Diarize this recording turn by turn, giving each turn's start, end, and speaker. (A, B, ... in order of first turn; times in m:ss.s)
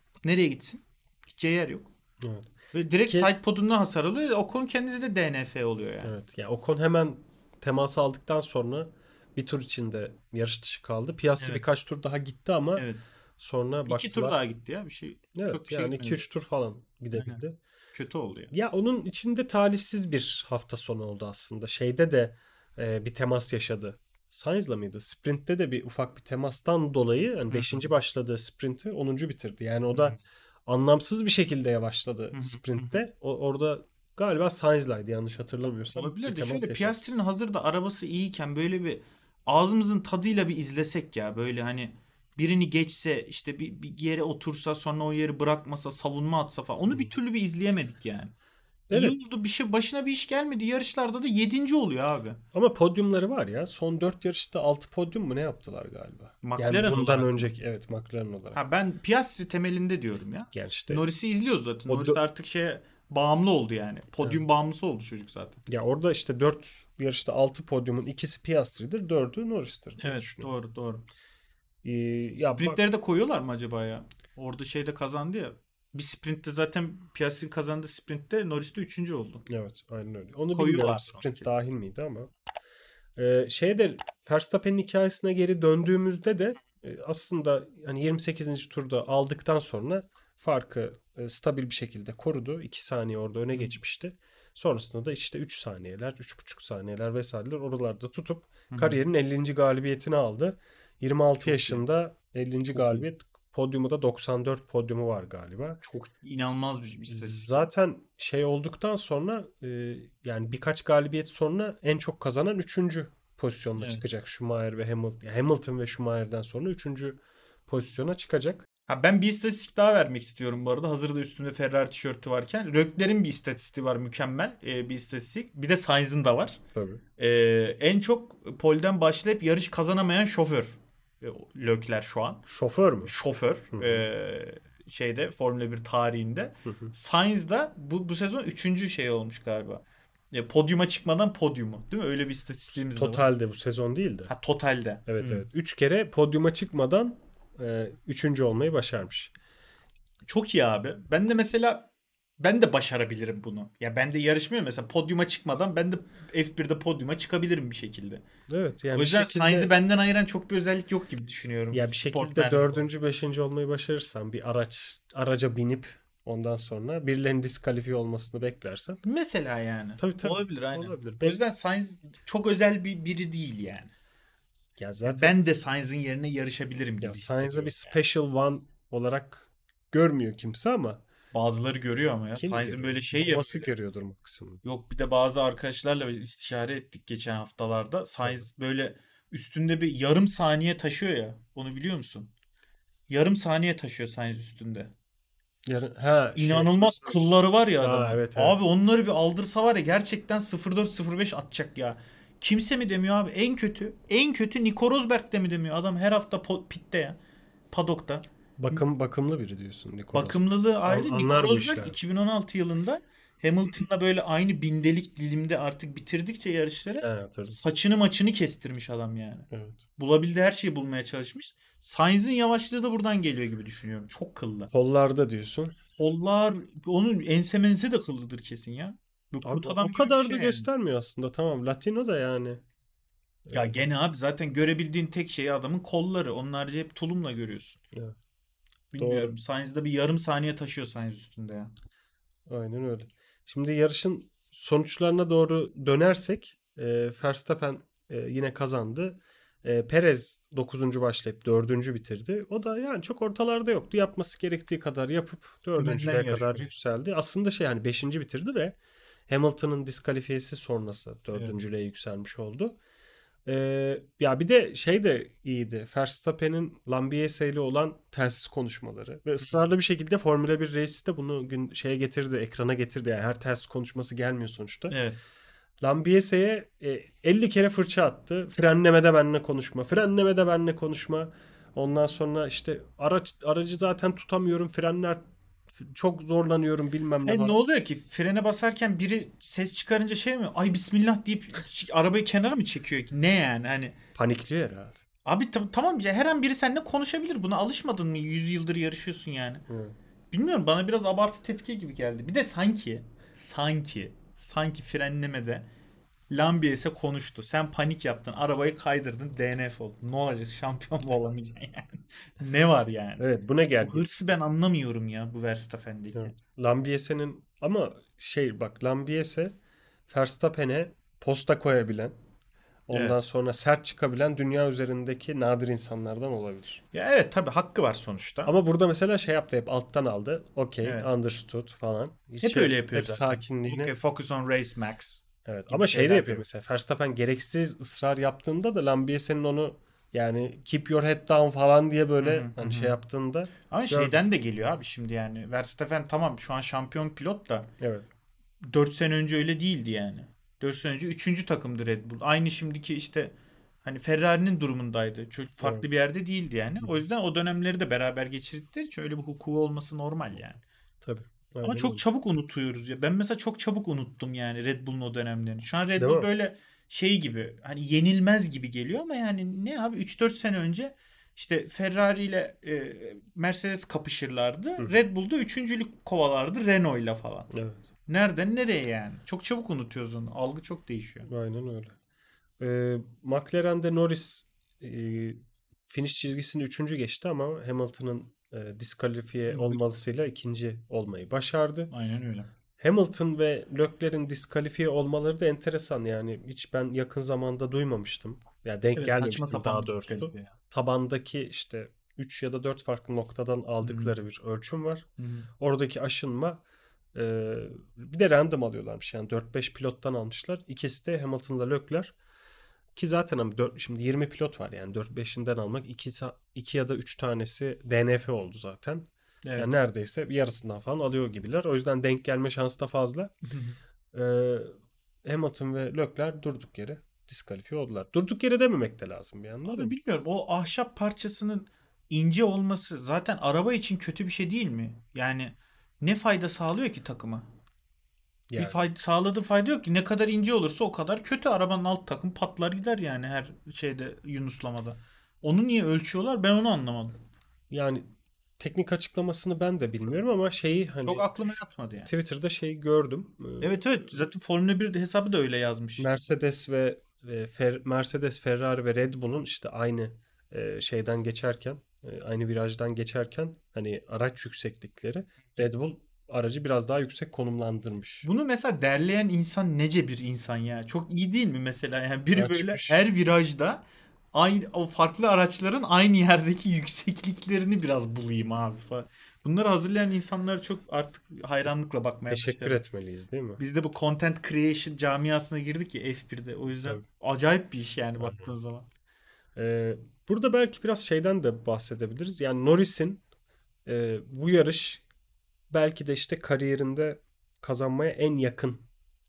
0:00.2-0:01.9 A
0:02.2-0:02.5 B
0:02.7-0:06.1 A
0:06.0-0:14.4 B
0:11.4-0:11.6 A
0:12.8-0:13.0 A
0:13.9-0:16.3 A
0:15.4-0:17.6 B
0:17.1-0:17.4 A
0:17.9-0:18.5 A
0:18.5-0:37.0 B
0:27.5-0:27.9 A
0:29.9-0:30.2 A
0:32.3-0:33.0 A
0:35.9-0:48.3 A
0:48.9-0:49.2 B
0:48.9-0:52.4 A
0:52.5-0:58.6 B
0:56.4-0:57.5 A
0:58.5-1:05.6 A
1:00.5-1:01.0 B
1:01.9-1:02.2 B
1:05.7-1:10.5 B
1:10.0-1:11.0 A
1:11.8-1:12.8 B
1:12.4-1:19.4 A
1:19.5-1:22.3 B
1:20.5-1:21.5 A
1:23.2-1:45.8 B
1:38.7-1:39.0 A
1:41.4-1:41.8 A
1:42.7-1:43.1 A
1:45.8-1:47.7 A
1:47.1-1:58.7 B
1:53.8-1:54.0 A
1:58.9-2:06.6 A
2:06.8-2:07.0 B
2:07.2-2:12.4 A
2:12.5-2:13.1 B
2:13.0-2:23.3 A
2:13.7-2:14.1 B
2:16.6-2:16.9 B
2:22.9-2:24.3 B
2:24.3-2:25.5 A
2:25.1-2:29.3 B
2:30.3-2:31.9 A
2:32.4-2:38.2 A
2:38.5-2:39.7 B
2:39.0-2:42.9 A
2:41.7-2:49.0 B
2:49.0-2:53.9 A
2:50.0-2:51.4 B
2:54.8-2:55.4 B
2:55.0-2:58.0 A
2:57.0-3:01.0 B
3:01.3-3:03.7 A
3:02.4-3:04.6 B
3:04.6-3:12.3 A
3:13.1-3:14.9 A
3:15.6-3:17.2 B
3:16.4-3:27.2 A
3:17.8-3:18.6 B
3:27.7-3:28.8 A
3:28.6-3:32.0 B
3:30.1-3:44.7 A
3:37.0-3:37.6 B
3:39.5-3:39.8 B
3:44.7-3:45.8 B
3:46.0-3:50.7 A
3:49.4-3:52.6 B
3:53.5-3:53.8 B
3:53.5-3:57.8 A
3:58.9-4:01.7 A
3:59.0-3:59.4 B
4:02.5-4:18.8 B
4:15.8-4:16.7 A
4:19.3-4:22.8 B
4:23.5-4:35.0 B
4:34.9-4:35.2 A
4:35.8-4:47.6 B
4:47.2-4:54.0 A
4:54.2-4:55.0 B
4:55.2-4:59.6 A
4:59.7-5:00.0 B
5:00.3-5:05.7 A
5:06.3-5:13.3 A
5:13.2-5:14.4 B
5:13.8-5:16.4 A
5:16.2-5:19.5 B
5:20.1-5:22.2 B
5:22.9-5:26.8 B
5:22.9-5:23.2 A
5:26.9-5:28.5 A
5:28.4-5:33.9 B
5:30.8-5:31.1 A
5:32.4-5:36.4 A
5:35.4-5:44.2 B
5:42.2-5:43.0 A
5:43.7-5:47.7 A
5:47.8-5:48.1 B
5:48.7-5:53.3 A
5:53.8-6:00.6 A
5:55.6-5:55.9 B
6:01.0-6:02.0 B
6:01.6-6:17.5 A
6:06.0-6:06.3 B
6:17.5-6:17.8 B
6:18.1-6:21.3 A
6:21.3-6:22.0 B
6:22.6-6:31.9 B
6:29.5-6:29.8 A
6:31.9-6:32.5 A
6:32.8-6:45.1 B
6:39.0-6:40.5 A
6:43.8-6:44.1 A
6:45.2-6:45.5 A
6:45.6-6:46.6 B
6:47.1-6:52.1 B
6:53.0-7:03.3 B
6:59.4-6:59.8 A
7:03.5-7:03.8 A
7:04.1-7:04.7 B
7:05.2-7:10.0 B
7:09.7-7:17.5 A
7:18.5-7:18.8 B
7:18.6-7:27.2 A
7:27.7-7:28.0 B
7:28.6-7:33.7 B
7:31.0-7:32.1 A
7:33.6-7:36.1 A
7:36.0-7:48.3 B
7:48.2-8:02.8 A
7:52.3-7:53.0 B
8:02.3-8:03.6 B
8:03.6-8:08.9 A
8:08.2-8:08.5 B
8:09.6-8:13.2 B
8:13.9-8:15.0 B
8:15.7-8:18.9 B